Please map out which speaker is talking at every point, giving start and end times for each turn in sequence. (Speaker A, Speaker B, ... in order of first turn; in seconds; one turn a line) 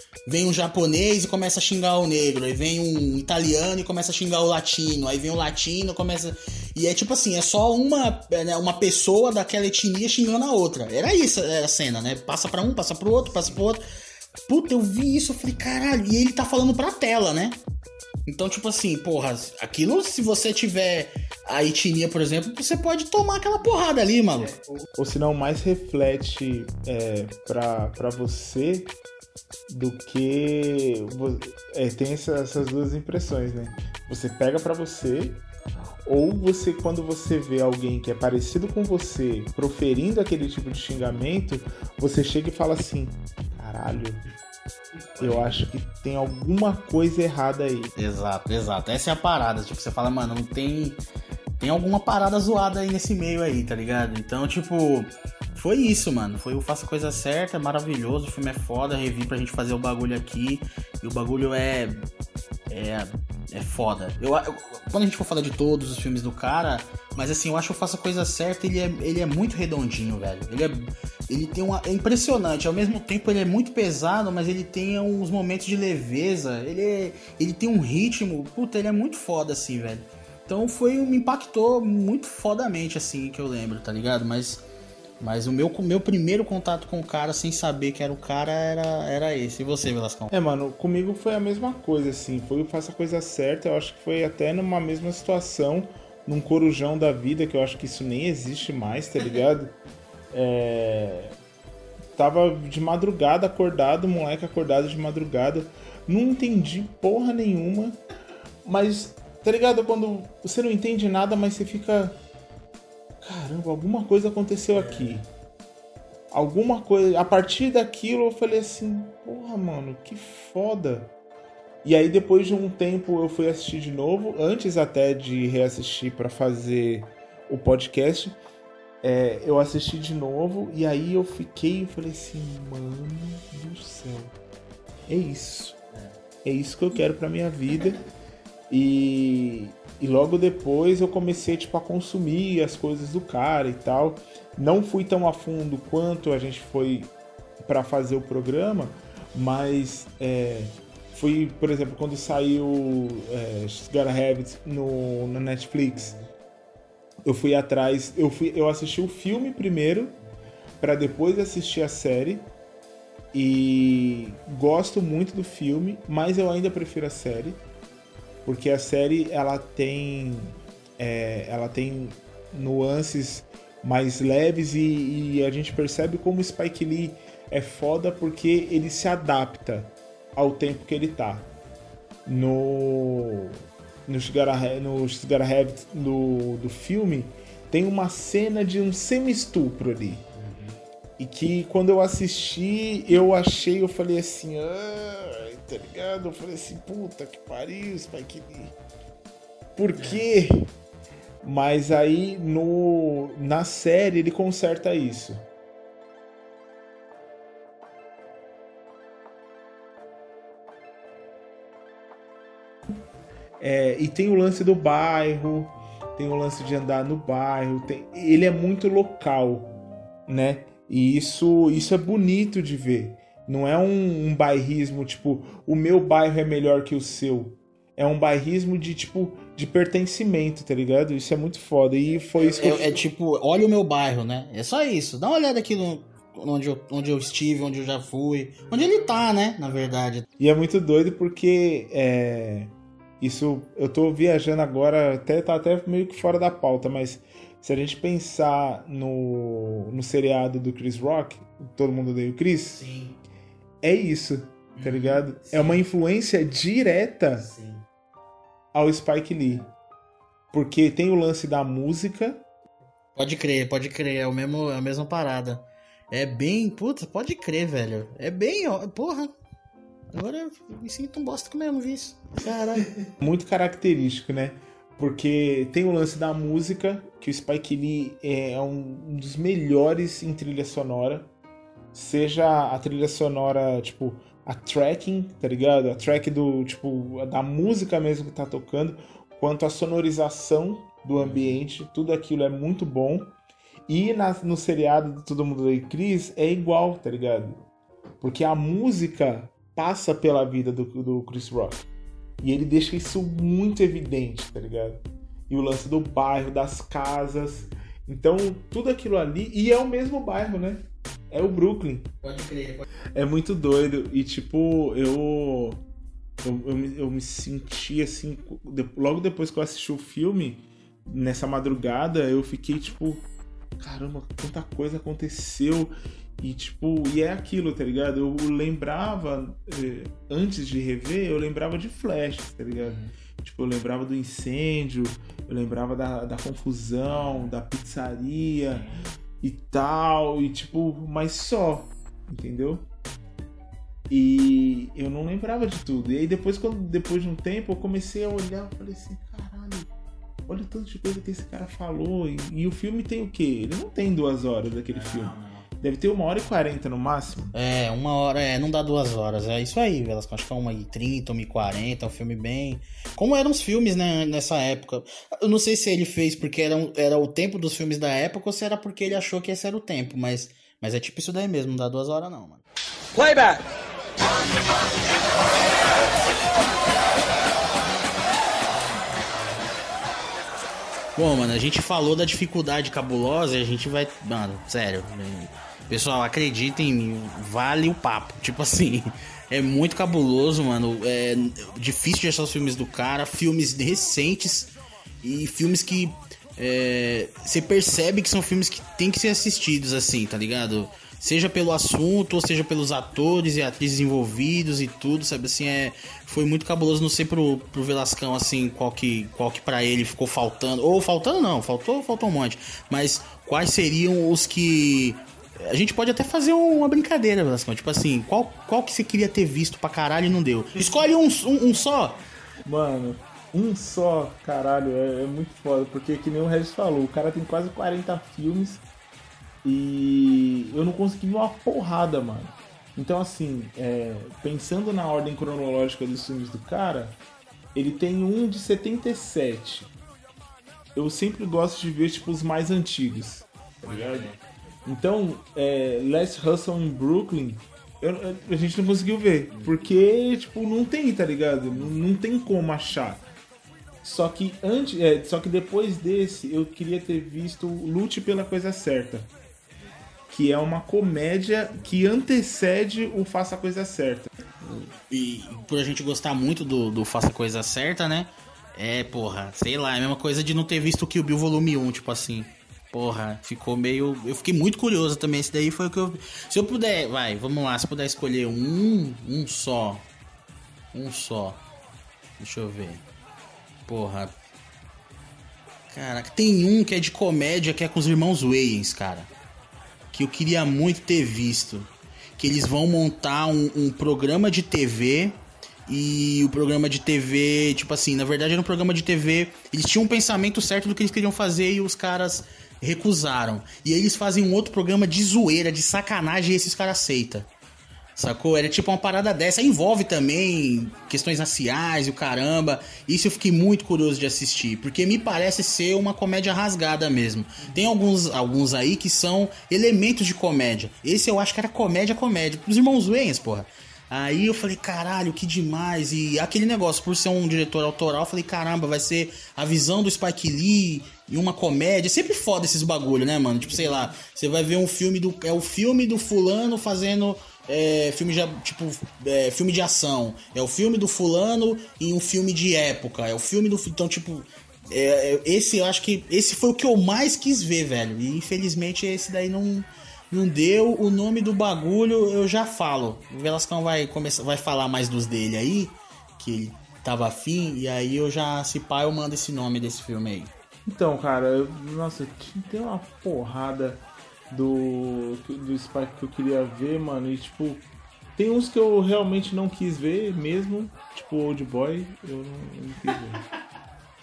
Speaker A: 0.3-13.8
Speaker A: 14.4-17.6
Speaker A: 18.3-24.5
Speaker B: 24.9-28.9
Speaker B: 29.7-35.4
Speaker B: 36.0-44.2
Speaker A: 45.2-45.5
Speaker B: 45.2-47.9
Speaker A: 48.0-51.0
Speaker A: 51.6-62.0
Speaker A: 62.7-84.7
Speaker A: 85.2-90.3
Speaker B: 90.3-99.8
Speaker B: 100.3-101.3
Speaker B: 102.2-108.0
Speaker B: 108.6-112.2
Speaker B: 113.2-115.2
Speaker A: 114.8-115.2
Speaker B: 116.3-121.1
Speaker B: 121.8-128.4
Speaker B: 129.0-134.3
Speaker B: 135.1-135.8
Speaker B: 136.4-138.0
Speaker B: 138.7-147.1
Speaker B: 147.6-156.1
Speaker B: 157.2-160.2
Speaker B: 160.8-162.5
Speaker B: 163.3-167.6
Speaker B: 168.4-181.5
Speaker B: 182.2-190.3
Speaker A: 190.3-190.8
Speaker B: 191.2-198.7
Speaker B: 199.8-200.7
Speaker A: 199.9-200.2
Speaker B: 201.4-205.4
Speaker B: 213.6-219.7
Speaker B: 220.3-233.0
Speaker A: 232.5-240.2
Speaker B: 238.7-239.1
Speaker B: 240.4-252.8
Speaker A: 252.7-253.2
Speaker B: 253.8-257.5
Speaker A: 254.8-255.8
Speaker A: 257.4-257.9
Speaker B: 258.7-259.6
Speaker B: 260.5-262.4
Speaker A: 263.1-269.3
Speaker A: 270.1-272.9
Speaker B: 273.2-281.3
Speaker B: 281.9-293.4
Speaker A: 291.2-291.6
Speaker B: 293.9-297.6
Speaker B: 298.2-301.9
Speaker B: 302.4-312.1
Speaker A: 312.2-312.9
Speaker B: 313.1-315.8
Speaker B: 316.4-323.2
Speaker B: 323.8-338.9
Speaker A: 332.8-333.1
Speaker A: 338.8-339.0
Speaker B: 339.4-342.9
Speaker B: 344.1-349.9
Speaker B: 350.5-357.5
Speaker A: 354.9-355.6
Speaker A: 357.5-372.6
Speaker A: 381.1-422.2
Speaker B: 422.6-428.8
Speaker B: 429.6-437.2
Speaker B: 437.7-439.9
Speaker B: 440.9-444.3
Speaker A: 443.8-444.4
Speaker B: 444.9-453.3
Speaker A: 449.5-449.9
Speaker B: 454.0-459.3
Speaker B: 460.3-464.3
Speaker A: 464.7-480.1
Speaker A: 480.9-481.6
Speaker A: 482.4-483.0
Speaker A: 483.9-484.4
Speaker A: 485.9-489.3
Speaker A: 490.1-507.5
Speaker A: 508.1-560.5
Speaker B: 533.6-534.1
Speaker B: 560.9-573.4